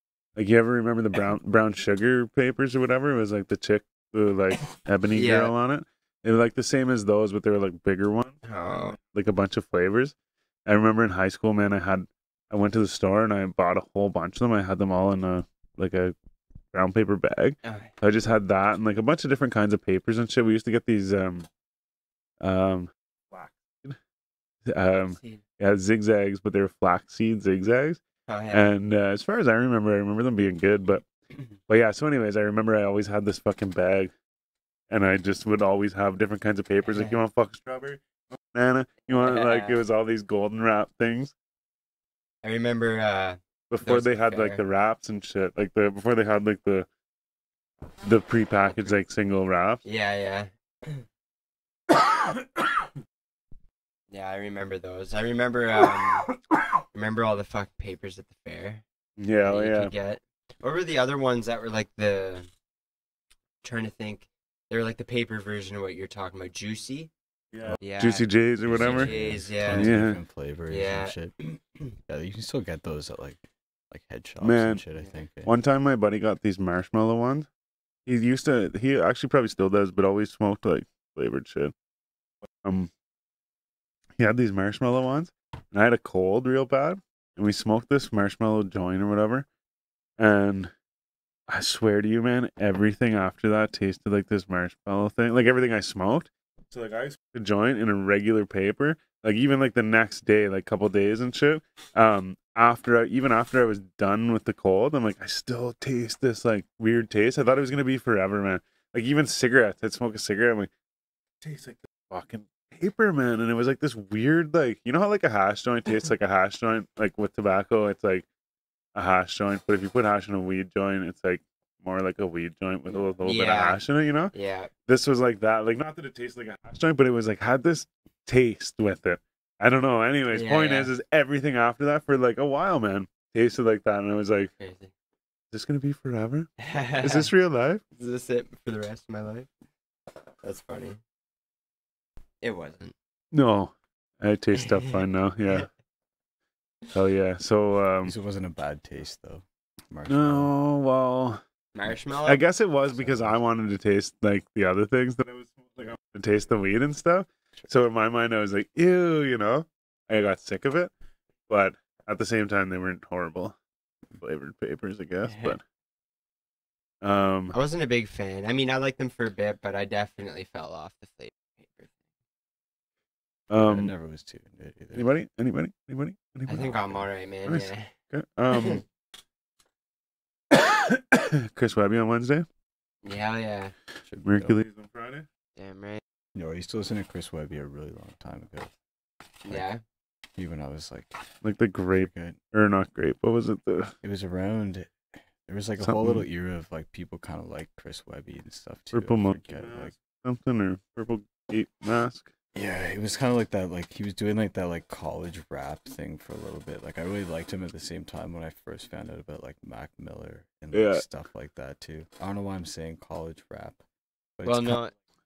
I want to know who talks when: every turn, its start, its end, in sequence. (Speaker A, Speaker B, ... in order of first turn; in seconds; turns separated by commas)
Speaker A: 0.3-10.1, Speaker B: 5.1-5.5, Speaker B: 8.4-9.0, Speaker A: 10.7-16.1, Speaker A: 16.7-21.5, Speaker B: 17.6-17.9, Speaker A: 22.4-24.0, Speaker A: 24.7-28.0, Speaker B: 25.1-25.4, Speaker B: 28.3-28.7, Speaker A: 28.5-31.0, Speaker A: 31.7-34.1, Speaker A: 34.9-41.3, Speaker B: 36.9-37.1, Speaker B: 39.2-39.8, Speaker B: 42.4-44.6, Speaker A: 43.7-46.9, Speaker A: 48.0-49.8, Speaker B: 49.8-51.0, Speaker B: 54.1-56.3, Speaker B: 56.9-58.8, Speaker A: 59.2-59.9, Speaker B: 59.4-62.5, Speaker B: 63.6-67.1, Speaker A: 67.5-70.2, Speaker B: 67.8-70.0, Speaker C: 68.6-71.4, Speaker B: 70.7-71.2, Speaker C: 72.1-75.5, Speaker A: 74.4-74.8, Speaker A: 75.4-77.5, Speaker A: 78.1-81.7, Speaker A: 82.6-82.9, Speaker A: 84.2-89.5, Speaker A: 90.2-90.7, Speaker A: 91.5-110.7, Speaker A: 111.4-118.2, Speaker A: 118.9-124.3, Speaker B: 123.2-123.8, Speaker B: 124.3-124.7, Speaker A: 124.9-134.5, Speaker B: 130.3-130.9, Speaker B: 134.6-134.9, Speaker A: 135.5-137.8, Speaker B: 136.6-137.3, Speaker B: 138.0-139.5, Speaker B: 140.4-141.0, Speaker B: 142.4-142.9, Speaker A: 143.3-145.7, Speaker A: 146.9-148.1, Speaker C: 148.0-150.5, Speaker A: 150.1-151.4, Speaker B: 151.7-152.4, Speaker A: 152.2-160.9, Speaker C: 152.9-153.4, Speaker A: 161.5-163.5, Speaker A: 164.2-165.6, Speaker B: 165.3-165.5, Speaker A: 167.0-167.5, Speaker B: 167.5-171.9, Speaker A: 173.5-173.9, Speaker C: 173.6-175.1, Speaker A: 174.9-178.8, Speaker B: 176.5-177.9, Speaker B: 178.5-178.8, Speaker A: 180.5-182.4, Speaker B: 183.0-183.7, Speaker C: 184.1-184.6, Speaker A: 184.2-185.3, Speaker B: 185.6-186.0, Speaker C: 186.3-188.7, Speaker B: 189.4-189.8, Speaker C: 190.3-191.2, Speaker A: 191.4-193.9, Speaker C: 191.9-192.4, Speaker C: 194.0-199.9, Speaker A: 195.8-196.2, Speaker A: 198.9-202.3, Speaker C: 202.5-213.8, Speaker A: 210.7-211.0, Speaker C: 214.4-214.8, Speaker B: 214.4-214.9